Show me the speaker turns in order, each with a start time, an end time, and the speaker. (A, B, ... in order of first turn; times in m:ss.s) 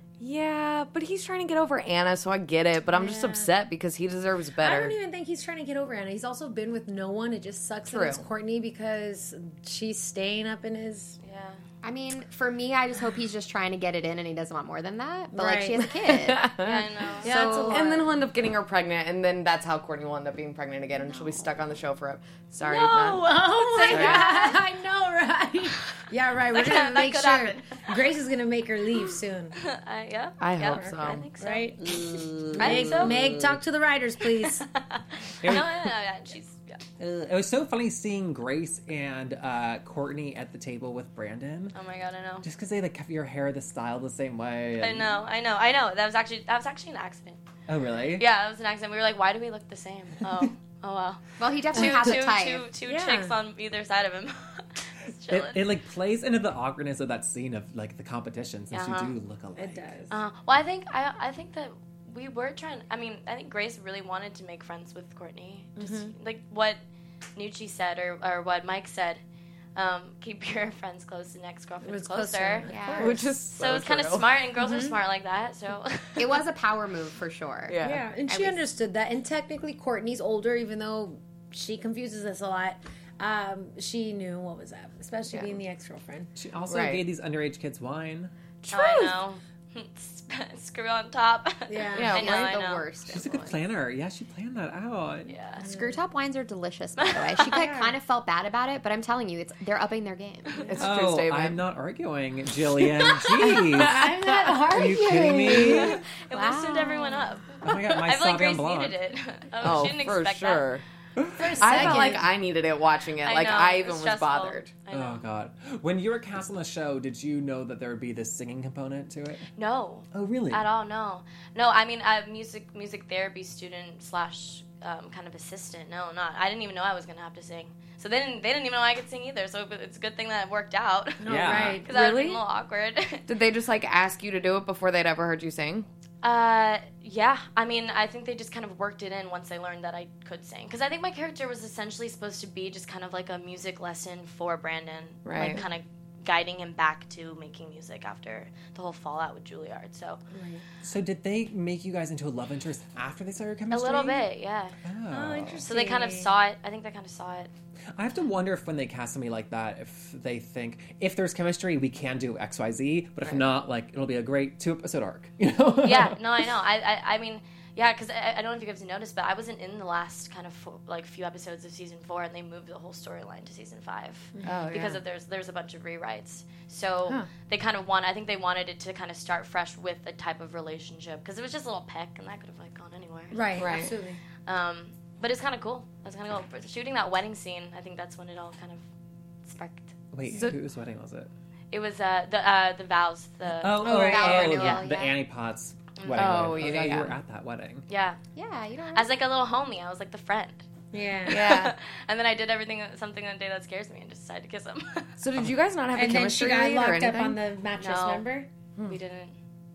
0:00.2-0:04.9 A
0:02.9-0:03.5 B
0:04.6-0:11.2 B
0:07.9-0:08.2 A
0:11.2-0:11.6 C
0:11.8-0:16.5 D
0:15.3-0:15.9 B
0:16.0-0:23.3 A
0:16.6-0:17.9 C
0:17.2-0:18.2 B
0:21.0-0:21.5 D
0:22.6-0:24.6 C
0:23.2-0:29.6 B
0:23.9-0:24.2 A
0:26.5-0:28.0 C
0:29.6-0:32.0 C
0:30.4-0:31.2 A
0:30.7-0:34.7 B
0:31.8-0:33.4 E
0:32.6-0:33.3 C
0:34.3-0:36.8 C
0:35.4-0:35.9 E
0:37.0-0:41.7 E
0:41.7-0:42.4 C
0:42.4-0:45.2 E
0:44.8-0:47.4 C
0:47.7-0:48.2 E
0:48.2-0:55.6 C
0:51.4-0:52.6 D
0:52.8-0:53.3 B
0:55.3-0:59.9 E
0:58.7-0:59.1 C
0:59.6-1:00.1 B
1:00.1-1:06.8 C
1:05.8-1:06.1 B
1:07.3-1:09.2 C
1:09.7-1:12.9 C
1:11.8-1:13.3 B
1:12.7-1:13.2 D
1:13.0-1:14.3 A
1:13.5-1:16.4 C
1:14.6-1:15.0 B
1:16.2-1:18.6 D
1:17.7-1:18.0 A
1:17.8-1:26.3 B
1:25.3-1:25.6 A
1:26.4-1:28.3 E
1:26.7-1:27.0 A
1:28.6-1:29.2 A
1:28.7-1:32.8 C
1:31.7-1:32.2 B
1:31.9-1:32.6 A
1:32.1-1:33.6 D
1:33.1-1:35.3 E
1:35.3-1:35.6 C
1:35.6-1:36.0 B
1:35.6-1:40.7 D
1:37.0-1:37.7 C
1:37.5-1:38.0 B
1:40.6-1:41.6 A
1:40.8-1:44.0 E
1:42.8-1:44.1 A
1:43.6-1:46.0 B
1:44.7-1:46.0 E
1:45.7-1:50.7 C
1:46.3-1:47.2 D
1:47.6-1:49.0 E
1:49.6-1:50.0 E
1:49.6-1:50.8 A
1:51.2-1:51.9 E
1:51.4-1:52.3 B
1:51.6-1:54.7 A
1:53.2-1:55.3 C
1:54.9-1:59.5 E
1:59.6-2:13.3 C
2:00.1-2:00.6 E
2:11.2-2:11.9 B
2:11.3-2:11.8 E
2:11.9-2:12.4 A
2:13.3-2:15.9 A
2:16.2-2:30.2 C
2:25.2-2:25.6 A
2:30.3-2:30.6 B
2:30.8-2:34.2 E
2:33.7-2:34.8 C
2:34.8-2:35.6 E
2:35.1-2:36.3 B
2:35.7-2:37.5 C
2:37.9-2:46.2 E
2:45.8-3:03.9 C
2:54.4-2:55.0 A
3:03.3-3:04.2 B
3:03.6-3:03.9 A
3:04.4-3:08.8 C
3:09.4-3:10.0 C
3:10.1-3:11.3 E
3:11.7-3:14.8 C
3:13.6-3:17.8 E
3:13.8-3:15.2 D
3:16.0-3:16.6 C
3:16.1-3:17.2 A
3:17.9-3:18.2 C
3:18.4-3:19.1 D
3:18.9-3:20.6 C
3:20.9-3:21.4 B
3:21.2-3:25.1 C
3:21.3-3:21.7 A
3:25.2-3:27.4 A
3:25.9-3:28.5 B
3:27.8-3:28.2 C
3:28.8-3:29.3 C